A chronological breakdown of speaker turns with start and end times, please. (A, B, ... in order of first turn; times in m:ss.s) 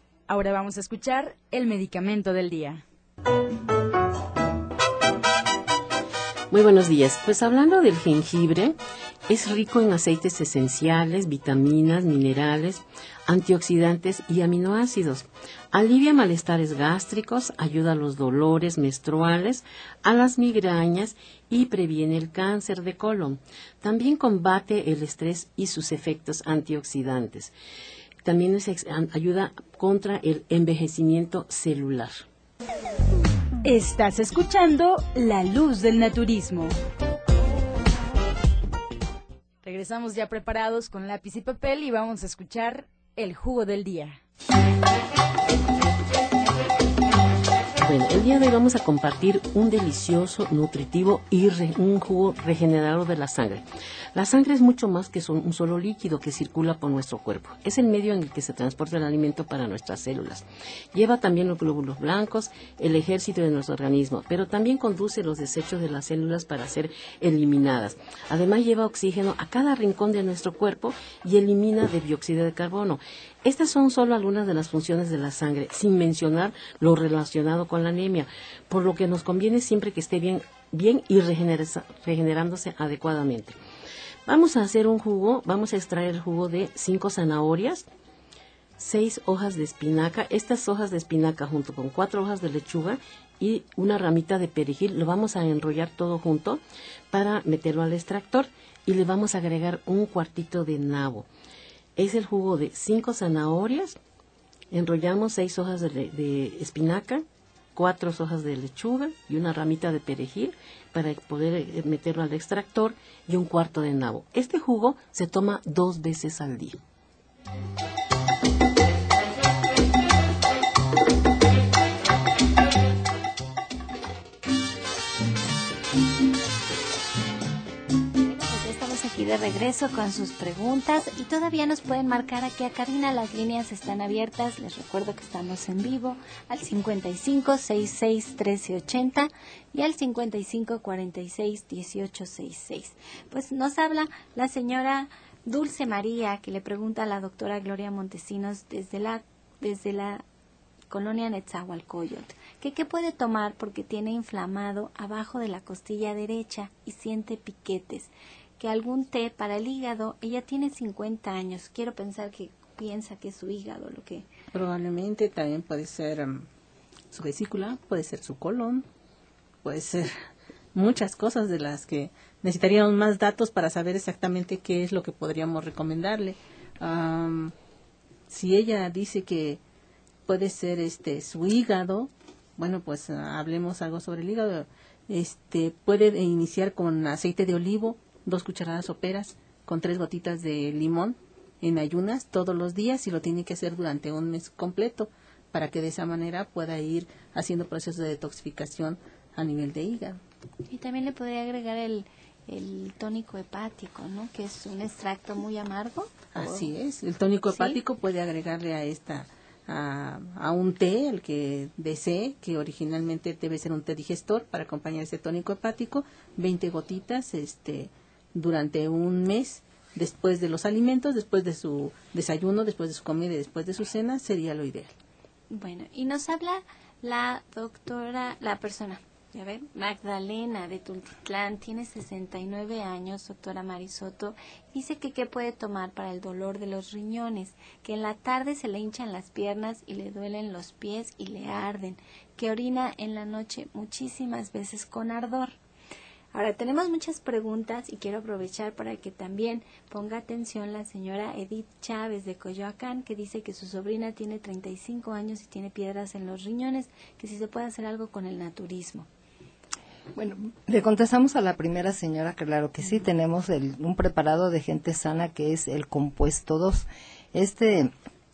0:00.3-0:02.8 A
0:06.5-0:08.8 B
0:09.3-0:27.5 B
0:28.2-0:32.2 B
0:33.6-0:36.8 A
0:39.6-0:44.2 A
0:47.8-1:23.6 B
1:24.3-1:27.9 B
1:28.8-1:36.6 B
1:37.1-1:41.3 B
1:42.0-1:44.0 B
1:44.7-1:56.8 B
2:08.2-2:30.2 C
2:30.9-2:44.3 C
2:44.5-2:46.5 D
2:47.1-2:48.8 D
2:49.6-2:50.1 D
2:50.7-2:57.5 D
2:58.3-2:59.6 D
3:00.3-3:20.2 D
3:20.7-3:26.7 C
3:26.3-3:44.9 D
3:27.5-3:27.8 C
3:45.5-4:05.5 C
4:06.3-4:19.1 C
4:20.1-4:27.9 E